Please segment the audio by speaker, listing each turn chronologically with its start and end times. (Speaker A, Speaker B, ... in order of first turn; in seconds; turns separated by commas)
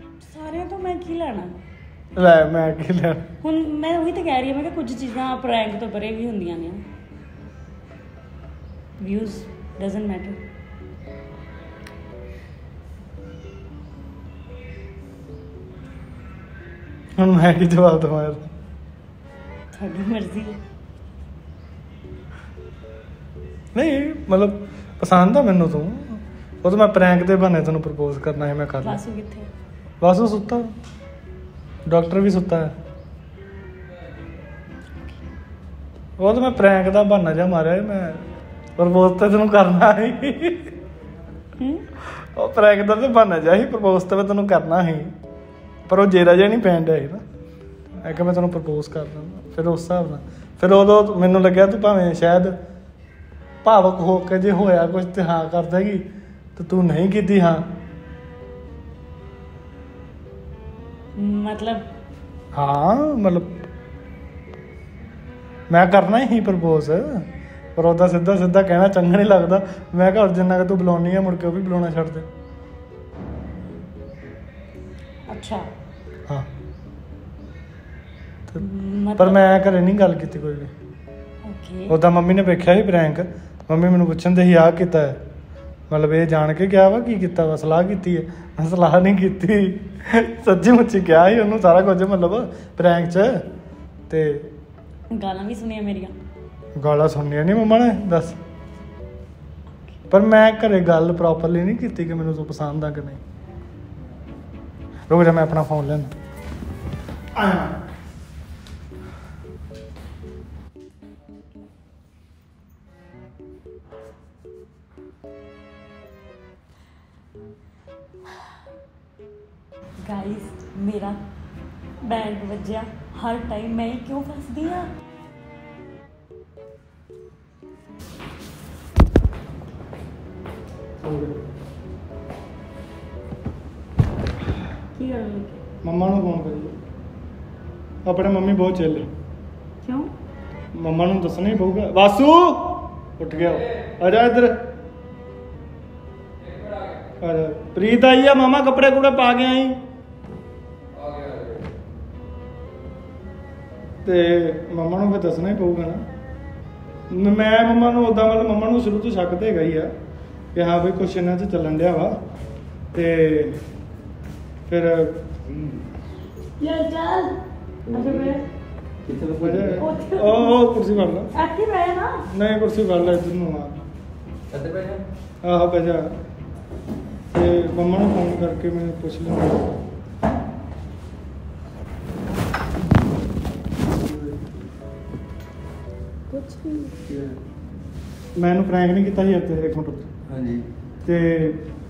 Speaker A: 0.2-1.5, Speaker B: 2.2-3.2, Speaker A: 3.4-6.8, Speaker A: 9.0-10.4, Speaker B: 17.2-18.5, Speaker A: 19.7-20.6, Speaker B: 23.8-29.0, Speaker A: 28.8-29.5, Speaker B: 30.0-30.7, Speaker B: 31.9-32.7, Speaker B: 36.2-38.2, Speaker B: 38.8-40.7, Speaker A: 41.6-41.8, Speaker B: 42.4-45.1, Speaker B: 45.9-47.2, Speaker B: 48.0-52.5, Speaker B: 53.6-56.0, Speaker B: 56.6-57.6, Speaker A: 61.2-61.9, Speaker B: 62.5-63.5, Speaker B: 65.7-67.2, Speaker B: 67.8-72.3, Speaker A: 75.3-75.7, Speaker A: 78.6-79.4, Speaker B: 79.2-80.7, Speaker A: 81.5-82.0, Speaker B: 81.9-85.2, Speaker B: 85.9-93.3, Speaker B: 94.1-94.5, Speaker A: 95.1-96.1, Speaker B: 96.8-98.4, Speaker B: 100.1-103.2, Speaker B: 105.1-106.1, Speaker B: 107.4-107.7, Speaker A: 120.0-121.2, Speaker A: 122.0-124.9, Speaker B: 131.0-131.3, Speaker A: 135.0-135.6, Speaker B: 135.8-136.8, Speaker B: 138.1-139.1, Speaker A: 139.8-140.1, Speaker B: 140.7-144.6, Speaker C: 146.4-147.1, Speaker B: 147.2-149.8, Speaker C: 150.9-151.7, Speaker B: 154.0-156.0, Speaker B: 157.1-159.9, Speaker B: 160.5-162.2, Speaker B: 162.9-163.6, Speaker B: 164.7-165.2, Speaker C: 165.5-165.8, Speaker A: 166.6-167.4, Speaker C: 167.9-168.4, Speaker A: 167.9-168.4, Speaker C: 169.1-169.9, Speaker B: 169.4-171.3, Speaker A: 169.8-170.6, Speaker A: 171.3-172.3, Speaker B: 172.3-173.8, Speaker C: 174.5-175.0, Speaker B: 175.4-176.1, Speaker B: 177.3-179.7, Speaker C: 184.1-184.4, Speaker A: 186.3-186.9, Speaker C: 187.1-187.4, Speaker B: 188.4-190.1, Speaker C: 190.3-190.7, Speaker B: 191.1-191.6